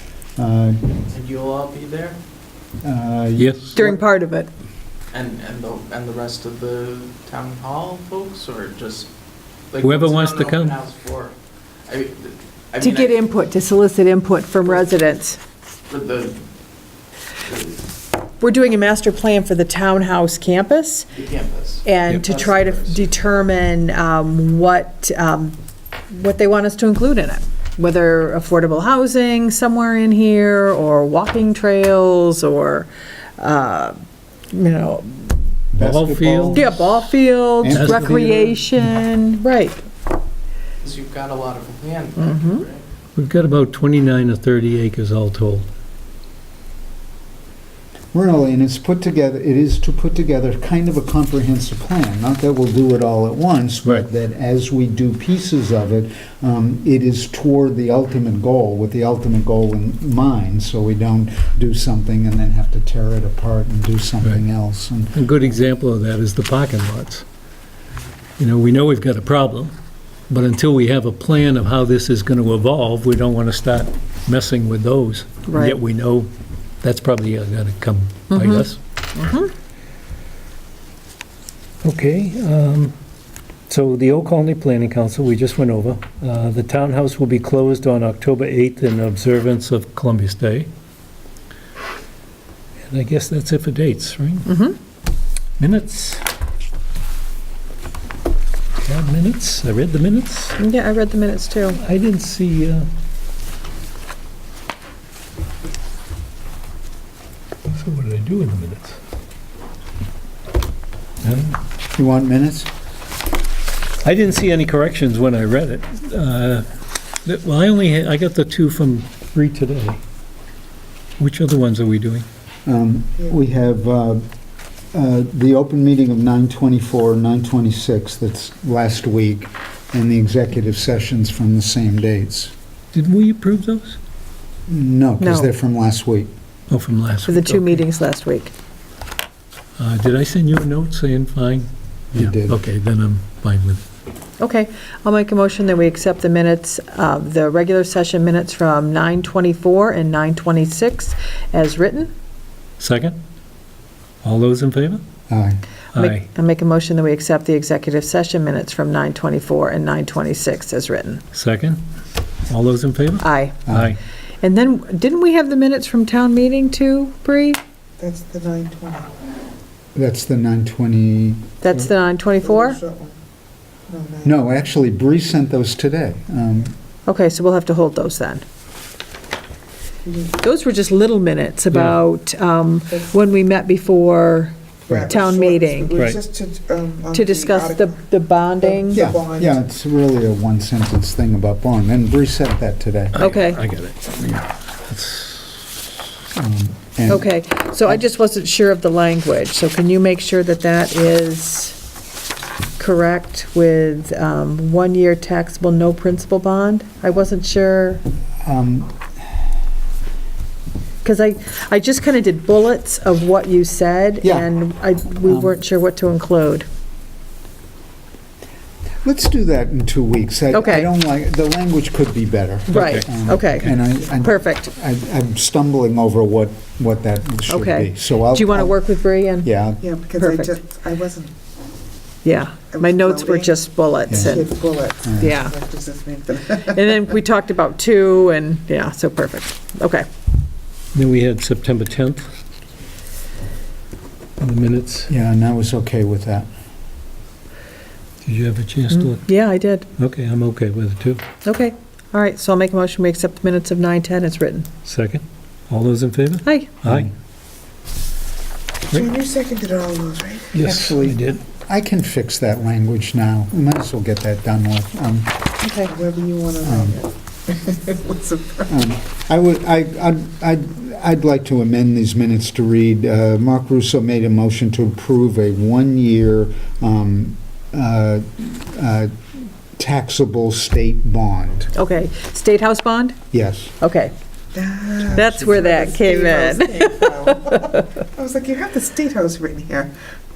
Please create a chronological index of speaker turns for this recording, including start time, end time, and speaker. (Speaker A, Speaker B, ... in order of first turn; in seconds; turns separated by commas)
Speaker A: 0.3-0.8, Speaker B: 1.1-2.2, Speaker A: 2.8-4.0, Speaker C: 3.4-3.7, Speaker D: 3.7-4.5, Speaker B: 5.1-9.1, Speaker B: 9.7-11.3, Speaker C: 9.8-10.8, Speaker B: 11.9-13.2, Speaker D: 12.8-15.4, Speaker B: 15.9-16.4, Speaker B: 17.5-17.7, Speaker D: 18.4-21.1, Speaker B: 21.1-23.0, Speaker D: 21.8-25.6, Speaker D: 26.1-34.0, Speaker D: 34.5-35.4, Speaker A: 35.7-36.9, Speaker C: 35.8-36.7, Speaker D: 36.5-39.8, Speaker A: 37.6-38.7, Speaker C: 37.6-38.2, Speaker B: 40.8-42.8, Speaker D: 42.2-42.6, Speaker C: 43.1-45.7, Speaker A: 48.1-65.2, Speaker C: 65.1-67.2, Speaker C: 68.4-69.7, Speaker C: 70.3-76.3, Speaker D: 75.5-75.8, Speaker C: 76.8-78.8, Speaker D: 78.3-79.5, Speaker C: 81.8-82.9, Speaker C: 83.7-90.7, Speaker C: 92.9-94.5, Speaker D: 94.5-94.8, Speaker C: 95.6-96.2, Speaker C: 98.8-100.5, Speaker D: 100.6-101.8, Speaker C: 101.7-102.9, Speaker C: 107.7-109.0, Speaker C: 111.2-111.6, Speaker A: 111.9-112.7, Speaker C: 114.0-116.7, Speaker C: 117.2-120.0, Speaker C: 121.2-122.2, Speaker A: 122.7-124.2, Speaker A: 124.9-132.5, Speaker C: 132.9-134.0, Speaker A: 134.7-136.3, Speaker D: 135.2-135.5, Speaker C: 136.7-137.8, Speaker D: 137.2-138.5, Speaker C: 139.8-143.8, Speaker A: 142.1-142.6, Speaker D: 144.4-152.1, Speaker C: 152.8-153.2, Speaker C: 154.2-155.0, Speaker A: 155.3-155.6, Speaker C: 155.9-156.2, Speaker D: 155.9-161.2, Speaker C: 161.3-161.8, Speaker C: 162.5-164.0, Speaker D: 163.2-163.6, Speaker A: 163.7-163.9, Speaker D: 164.4-167.6, Speaker E: 168.0-169.1, Speaker A: 169.9-171.8, Speaker D: 171.6-172.8, Speaker E: 172.4-173.2, Speaker E: 173.9-174.3, Speaker A: 174.2-176.8, Speaker D: 177.1-178.4, Speaker E: 180.0-180.4, Speaker D: 180.4-186.0, Speaker C: 181.7-182.0, Speaker E: 184.9-187.9, Speaker C: 185.9-186.2, Speaker D: 187.1-189.1, Speaker E: 188.6-189.6, Speaker A: 188.9-193.2, Speaker C: 193.1-195.7, Speaker D: 193.2-193.6, Speaker A: 196.3-197.3, Speaker D: 197.1-201.8, Speaker D: 202.8-208.0, Speaker A: 208.4-208.9, Speaker D: 211.0-216.7, Speaker A: 214.2-214.5, Speaker A: 215.2-215.5, Speaker A: 219.0-228.8, Speaker D: 220.5-220.9, Speaker D: 222.7-224.7, Speaker C: 222.7-223.0, Speaker D: 227.5-229.5, Speaker A: 229.4-229.8, Speaker E: 229.8-231.3, Speaker D: 230.1-230.5, Speaker D: 232.2-234.5, Speaker E: 232.7-233.5, Speaker A: 234.1-234.4, Speaker E: 234.1-236.7, Speaker A: 235.0-235.4, Speaker D: 235.1-235.6, Speaker D: 236.5-240.1, Speaker C: 240.9-242.3, Speaker C: 244.4-245.1, Speaker A: 245.1-246.5, Speaker C: 248.2-249.3, Speaker D: 248.9-249.9, Speaker C: 250.0-251.2, Speaker D: 251.4-254.7, Speaker C: 254.8-257.1, Speaker D: 256.4-256.8, Speaker E: 258.9-260.6, Speaker C: 260.5-261.4, Speaker A: 260.6-265.4, Speaker D: 265.6-265.9, Speaker E: 265.9-268.7, Speaker A: 266.6-267.0, Speaker A: 268.7-279.2, Speaker A: 279.7-281.7, Speaker D: 281.7-283.2, Speaker A: 283.3-283.7, Speaker D: 283.8-284.1, Speaker E: 284.5-289.9, Speaker D: 285.1-287.8